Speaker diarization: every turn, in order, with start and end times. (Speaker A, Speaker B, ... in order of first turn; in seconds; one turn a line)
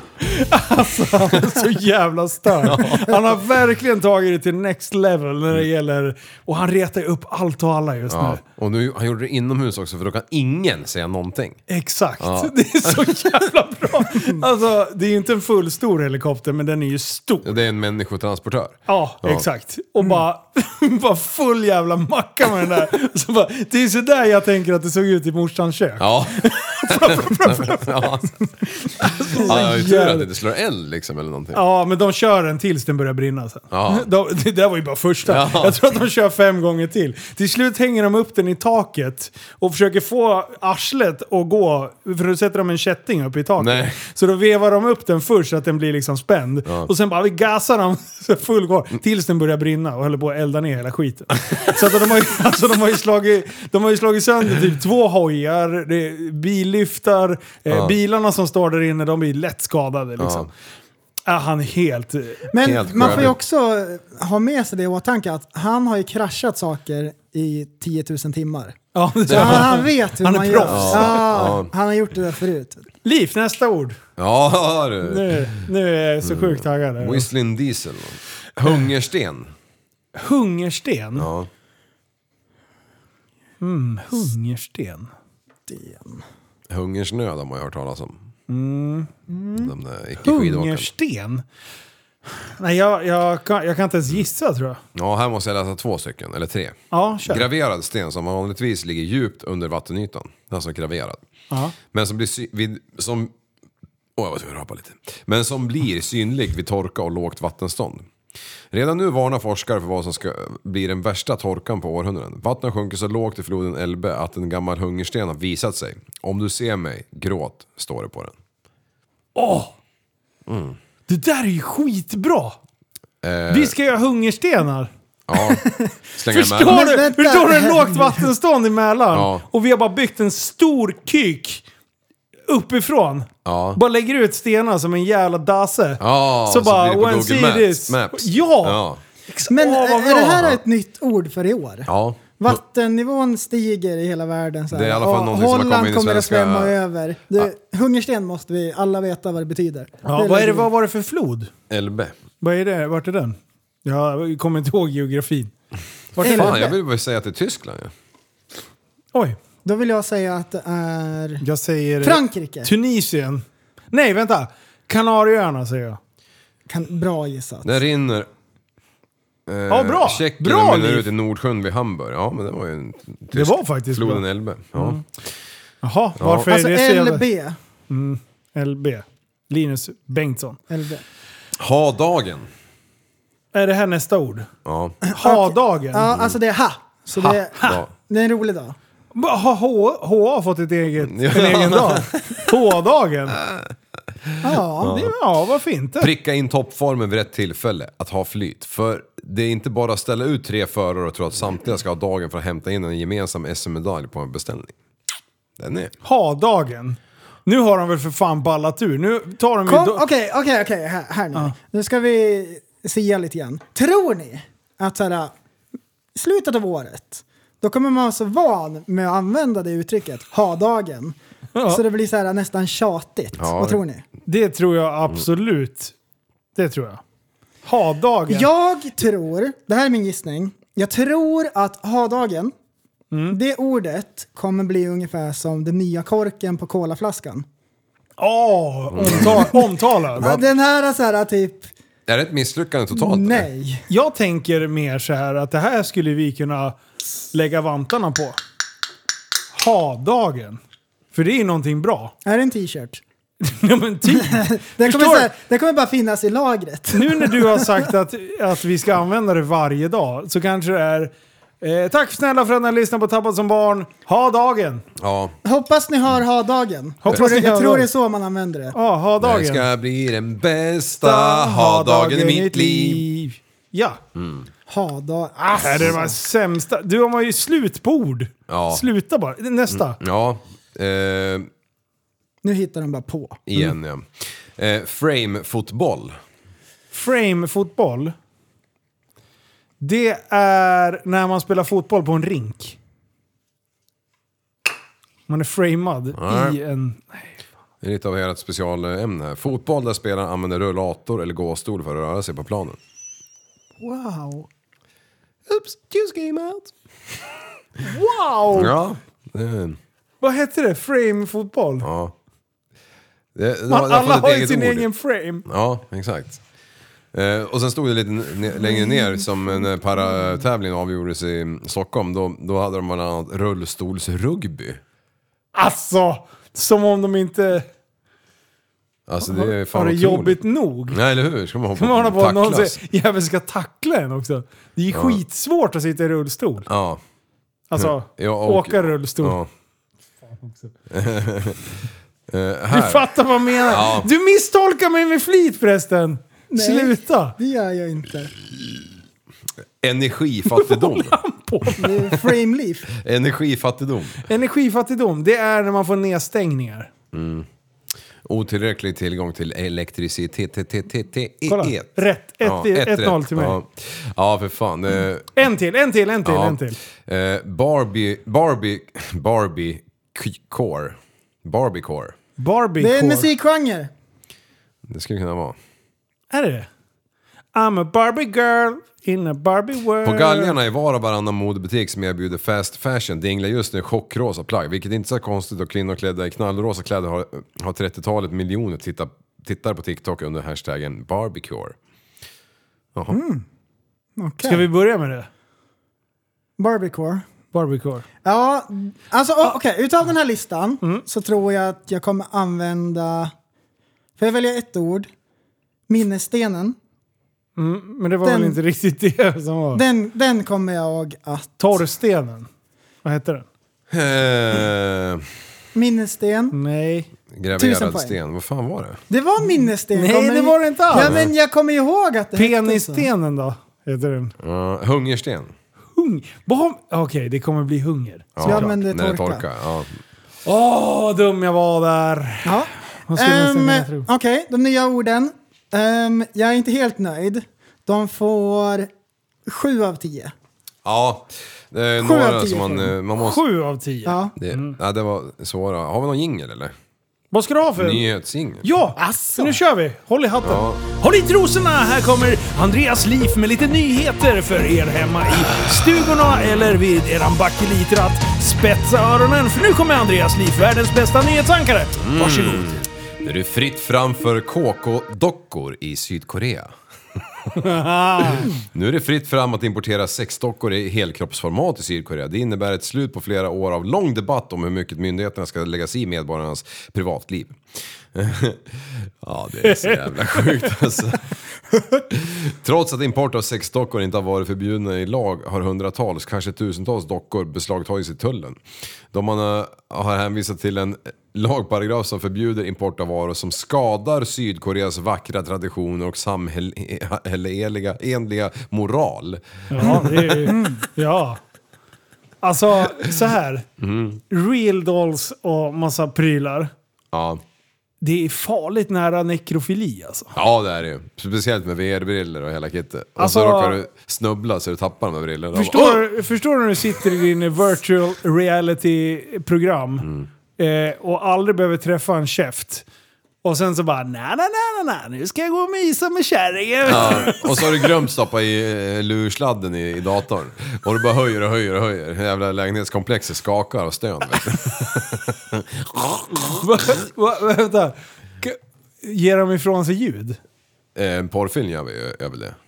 Speaker A: 0.2-8.4
Speaker B: 2.6-3.3
Speaker B: 8.1-11.6
Speaker A: 11.7-17.5
Speaker B: 12.2-13.4
Speaker B: 17.4-19.4
Speaker A: 18.9-30.3
Speaker B: 26.0-28.3
Speaker B: 29.0-31.6
Speaker A: 31.5-60.5
Speaker B: 33.7-34.1
Speaker B: 35.2-35.8
Speaker B: 43.6-44.0
Speaker B: 57.7-58.0
Speaker B: 60.2-60.5
Speaker A: 61.3-63.3
Speaker C: 62.5-68.8
Speaker B: 62.6-63.3
Speaker A: 68.9-71.5
Speaker B: 69.3-69.8
Speaker C: 69.3-72.8
Speaker B: 70.6-71.7
Speaker A: 73.0-74.0
Speaker B: 74.2-75.6
Speaker A: 75.0-77.3
Speaker B: 76.2-79.5
Speaker A: 80.2-81.3
Speaker B: 81.2-81.5
Speaker A: 83.6-85.1
Speaker C: 85.7-86.2
Speaker B: 86.7-88.2
Speaker A: 88.5-89.7
Speaker B: 89.5-90.9
Speaker A: 90.2-91.4
Speaker A: 92.4-94.8
Speaker B: 94.9-101.2
Speaker A: 96.9-97.5
Speaker A: 101.5-101.8
Speaker B: 101.9-103.3
Speaker B: 104.2-108.1
Speaker B: 108.7-118.3
Speaker A: 119.3-119.7
Speaker B: 120.5-120.8
Speaker A: 121.1-122.5
Speaker B: 123.2-123.7
Speaker A: 123.5-124.9
Speaker B: 125.3-125.6
Speaker C: 125.6-125.9
Speaker B: 126.1-126.9
Speaker A: 126.3-131.6
Speaker C: 126.7-128.3
Speaker B: 129.1-129.4
Speaker A: 132.5-140.6
Speaker B: 133.4-133.8
Speaker B: 136.0-139.0
Speaker C: 139.5-150.7
Speaker B: 141.9-142.6
Speaker B: 144.7-146.8
Speaker A: 150.0-151.5
Speaker B: 151.7-152.2
Speaker A: 152.4-155.5
Speaker A: 156.2-156.7
Speaker C: 156.2-156.7
Speaker B: 156.2-157.9
Speaker C: 159.6-161.4
Speaker A: 161.4-166.0
Speaker C: 162.0-162.7
Speaker C: 166.7-167.8
Speaker B: 167.6-168.3
Speaker B: 169.5-175.0
Speaker A: 169.7-171.1
Speaker A: 173.3-174.2
Speaker A: 174.7-175.0
Speaker A: 175.8-177.2
Speaker B: 176.2-176.5
Speaker C: 176.5-177.6
Speaker A: 177.9-180.6
Speaker C: 180.7-181.0
Speaker B: 181.6-182.5
Speaker A: 183.5-184.5
Speaker B: 184.6-185.0
Speaker C: 185.0-188.8
Speaker A: 185.1-186.1
Speaker B: 186.1-186.3
Speaker A: 187.2-187.8
Speaker B: 187.6-187.9
Speaker A: 189.1-193.4
Speaker B: 191.0-192.5
Speaker B: 193.4-193.7
Speaker B: 194.3-195.1
Speaker C: 194.4-195.0
Speaker A: 194.8-196.1
Speaker B: 196.0-204.7
Speaker B: 205.6-205.9
Speaker A: 206.0-210.0
Speaker C: 209.7-215.3
Speaker C: 216.1-221.2
Speaker A: 221.5-221.8
Speaker C: 221.7-224.0
Speaker B: 223.4-223.8
Speaker A: 224.2-225.9
Speaker A: 226.6-227.0
Speaker A: 227.6-228.5
Speaker C: 228.3-232.5
Speaker A: 233.1-233.4
Speaker C: 233.3-237.4
Speaker A: 238.2-240.3
Speaker B: 238.9-239.4
Speaker C: 239.2-239.6
Speaker C: 240.2-241.7
Speaker B: 242.1-243.5
Speaker C: 242.9-243.8
Speaker A: 243.9-246.8
Speaker A: 247.3-248.4
Speaker A: 249.5-250.6
Speaker A: 251.1-252.1
Speaker C: 252.2-253.0
Speaker A: 253.4-255.3
Speaker C: 254.1-257.9
Speaker A: 256.9-264.8
Speaker B: 265.0-265.3
Speaker C: 265.4-268.7
Speaker A: 267.0-267.9
Speaker A: 268.7-269.6
Speaker B: 269.2-273.0
Speaker A: 271.0-274.0
Speaker B: 274.1-274.5
Speaker C: 274.7-276.1
Speaker A: 275.5-280.0
Speaker B: 278.5-278.8
Speaker B: 279.7-281.5
Speaker C: 282.4-283.4
Speaker B: 283.5-286.2
Speaker A: 286.9-288.1
Speaker A: 289.8-292.8
Speaker A: 295.3-297.3
Speaker B: 296.1-296.6
Speaker B: 297.8-302.8
Speaker C: 303.9-304.4
Speaker A: 305.5-306.7
Speaker A: 307.8-308.7
Speaker B: 308.5-309.8
Speaker A: 310.2-311.9
Speaker B: 311.8-312.1
Speaker B: 313.3-314.9
Speaker A: 313.7-315.4
Speaker B: 315.4-316.4
Speaker B: 317.1-324.8
Speaker A: 325.5-327.6
Speaker B: 329.1-332.8
Speaker A: 329.2-331.0
Speaker A: 331.8-336.7
Speaker B: 334.9-335.2
Speaker B: 336.6-337.0
Speaker A: 337.7-339.4
Speaker B: 337.8-339.5
Speaker A: 340.3-340.7
Speaker B: 340.9-341.7
Speaker B: 342.3-343.1
Speaker A: 342.7-347.3
Speaker B: 343.6-344.1
Speaker C: 346.5-348.3
Speaker B: 349.8-351.2
Speaker A: 350.5-352.2
Speaker C: 351.8-352.9
Speaker B: 352.9-354.2
Speaker A: 354.2-356.9
Speaker B: 357.1-357.5
Speaker B: 358.2-365.3
Speaker A: 361.5-363.6
Speaker A: 365.3-366.8
Speaker B: 366.2-372.1
Speaker A: 372.4-373.3
Speaker C: 372.8-373.9
Speaker B: 374.9-375.6
Speaker A: 376.3-376.7
Speaker A: 377.5-380.6
Speaker B: 380.0-391.8
Speaker C: 393.1-393.4
Speaker C: 394.2-394.6
Speaker A: 394.4-395.3
Speaker C: 396.6-397.2
Speaker A: 397.5-398.1
Speaker C: 398.2-403.3
Speaker C: 404.2-405.1
Speaker C: 405.9-406.8
Speaker A: 407.6-409.8
Speaker C: 408.2-408.6
Speaker C: 409.7-411.8
Speaker A: 411.6-412.5
Speaker A: 413.0-413.4
Speaker B: 413.9-415.2
Speaker C: 415.7-416.6
Speaker A: 416.5-417.1
Speaker B: 417.3-419.0
Speaker C: 417.6-418.2
Speaker C: 419.1-423.1
Speaker A: 419.9-421.2
Speaker B: 420.9-421.3
Speaker A: 422.4-424.3
Speaker B: 424.4-425.5
Speaker A: 425.9-428.7
Speaker B: 428.4-430.0
Speaker C: 428.4-429.4
Speaker A: 430.4-434.1
Speaker C: 432.4-438.9
Speaker C: 439.4-440.3
Speaker B: 440.8-443.4
Speaker C: 442.0-442.9
Speaker A: 443.1-444.8
Speaker C: 444.0-444.3
Speaker B: 444.4-446.7
Speaker A: 447.3-448.0
Speaker B: 447.8-448.7
Speaker A: 448.6-462.7
Speaker C: 449.0-449.6
Speaker B: 450.4-450.8
Speaker B: 462.0-466.7
Speaker A: 467.6-468.5
Speaker B: 468.4-477.6
Speaker B: 478.1-481.2
Speaker A: 479.6-480.7
Speaker B: 482.1-488.6
Speaker B: 489.1-500.4
Speaker A: 499.7-501.4
Speaker C: 499.8-500.8
Speaker A: 502.4-503.6
Speaker B: 503.8-504.2
Speaker A: 504.3-506.7
Speaker B: 507.1-507.4
Speaker A: 508.0-510.3
Speaker B: 510.3-516.1
Speaker A: 513.2-513.8
Speaker A: 515.5-522.8
Speaker B: 520.0-520.3
Speaker A: 523.4-527.9
Speaker B: 526.8-536.6
Speaker A: 536.4-540.4
Speaker B: 541.0-542.6